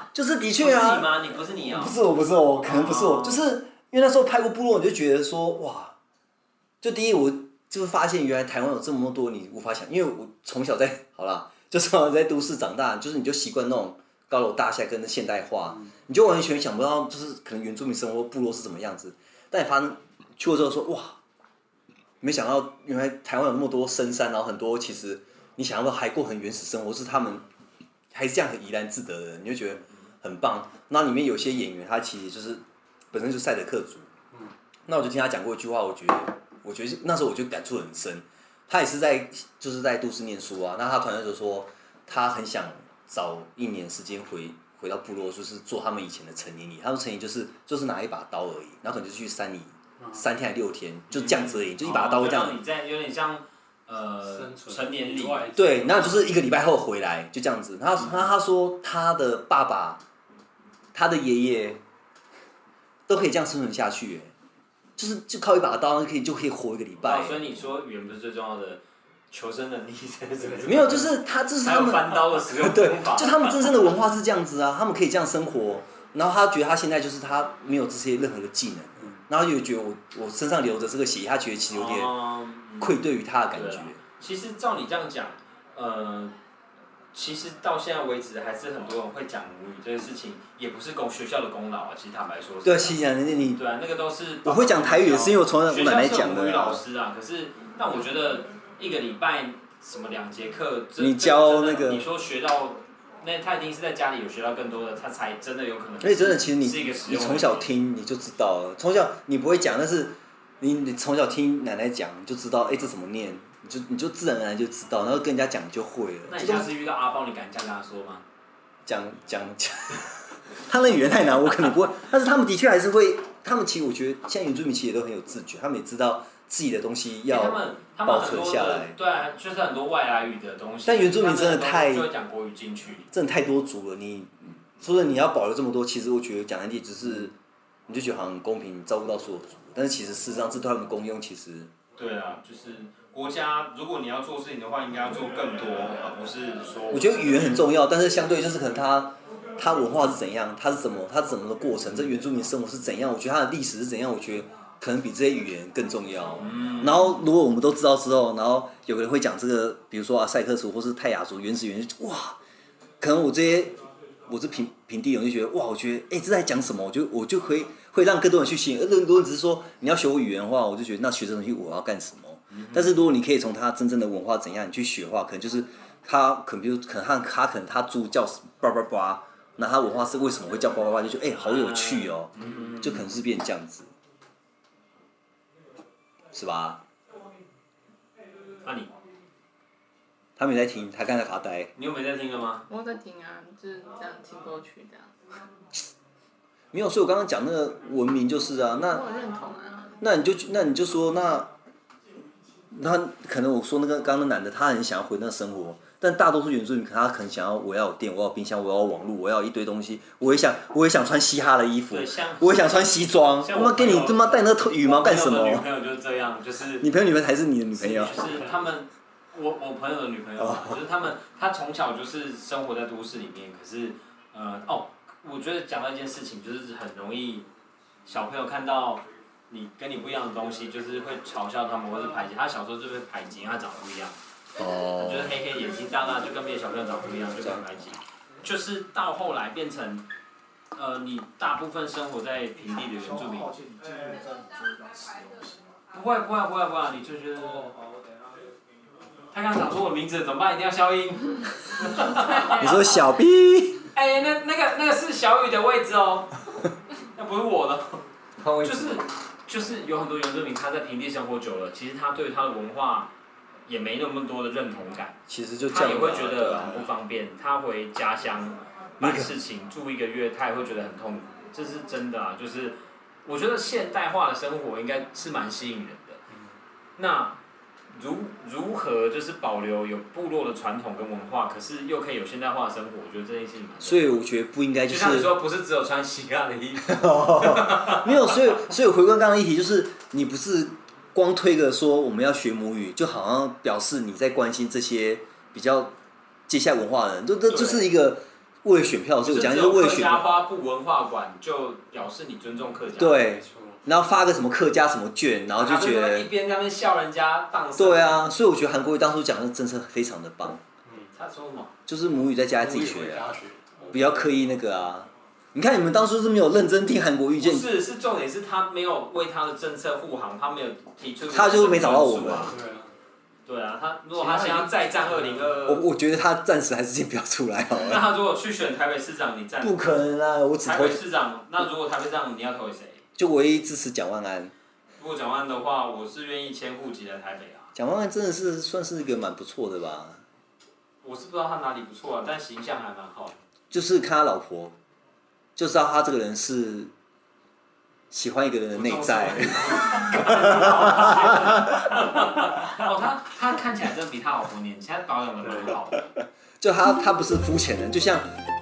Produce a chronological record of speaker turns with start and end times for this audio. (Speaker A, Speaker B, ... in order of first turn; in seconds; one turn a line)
Speaker A: 0.1-6.0
Speaker B: 0.6-2.0
Speaker B: 2.6-3.4
Speaker A: 6.8-21.2
Speaker A: 22.2-27.5
Speaker A: 28.1-34.1
Speaker A: 34.9-52.6
Speaker C: 50.0-50.2
Speaker B: 51.1-55.5
Speaker C: 54.2-56.0
Speaker A: 55.5-60.0
Speaker A: 60.9-61.8
Speaker A: 63.1-64.3
Speaker A: 65.0-67.5
Speaker B: 67.0-71.1
Speaker C: 70.4-71.0
Speaker A: 70.7-82.2
Speaker B: 71.6-73.9
Speaker B: 81.7-83.0
Speaker A: 82.8-84.0
Speaker B: 83.5-86.3
Speaker B: 87.1-93.0
Speaker A: 92.6-93.6
Speaker B: 93.5-107.7
Speaker A: 94.4-96.8
Speaker A: 101.0-102.1
Speaker A: 106.0-116.7
Speaker B: 116.3-118.2
Speaker A: 118.9-129.0
Speaker B: 127.3-133.1
Speaker A: 130.8-132.1
Speaker A: 133.1-137.3
Speaker A: 137.9-141.7
Speaker B: 142.0-147.7
Speaker A: 146.9-162.4
Speaker B: 156.4-157.2
Speaker A: 163.0-183.9
Speaker B: 172.5-173.0
Speaker B: 181.4-183.1
Speaker A: 186.3-186.8
Speaker B: 188.6-188.9
Speaker A: 190.4-191.7
Speaker B: 191.8-192.7
Speaker D: 192.7-195.2
Speaker A: 196.7-199.1
Speaker D: 198.8-200.0
Speaker A: 200.0-201.5
Speaker A: 202.7-215.7
Speaker B: 211.9-216.9
Speaker A: 216.8-218.4
Speaker B: 217.7-227.5
Speaker A: 220.4-220.8
Speaker B: 228.1-234.2
Speaker A: 234.6-235.4
Speaker B: 235.0-240.1
Speaker B: 240.7-243.6
Speaker B: 245.9-247.8
Speaker B: 249.3-252.8
Speaker A: 252.5-253.9
Speaker B: 253.9-256.5
Speaker B: 257.0-258.0
Speaker A: 258.4-259.0
Speaker B: 258.6-263.1
Speaker B: 263.7-276.2
Speaker A: 265.3-266.9
Speaker A: 269.0-269.3
Speaker B: 277.0-277.4
Speaker B: 277.9-284.1
Speaker A: 283.8-285.4
Speaker B: 284.9-288.6
Speaker A: 286.8-295.9
Speaker A: 296.5-300.3
Speaker B: 297.5-297.9
Speaker B: 299.2-303.2
Speaker A: 303.0-306.3
Speaker C: 303.1-303.9
Speaker B: 305.6-308.2
Speaker A: 307.8-310.6
Speaker C: 310.9-311.1
Speaker B: 311.1-311.8
Speaker A: 311.9-313.3
Speaker C: 312.6-314.1
Speaker A: 313.9-317.7
Speaker B: 317.4-322.5
Speaker A: 321.3-322.6
Speaker C: 322.5-322.9
Speaker B: 323.5-325.9
Speaker C: 324.1-325.6
Speaker A: 325.7-328.1
Speaker B: 327.7-329.9
Speaker A: 329.6-331.0
Speaker B: 330.6-333.0
Speaker A: 333.2-334.5
Speaker B: 335.0-337.7
Speaker A: 337.8-340.2
Speaker B: 341.0-343.4
Speaker A: 343.7-344.8
Speaker A: 345.6-346.9
Speaker A: 348.1-351.9
Speaker B: 348.7-356.1
Speaker C: 355.4-355.7
Speaker A: 356.6-358.3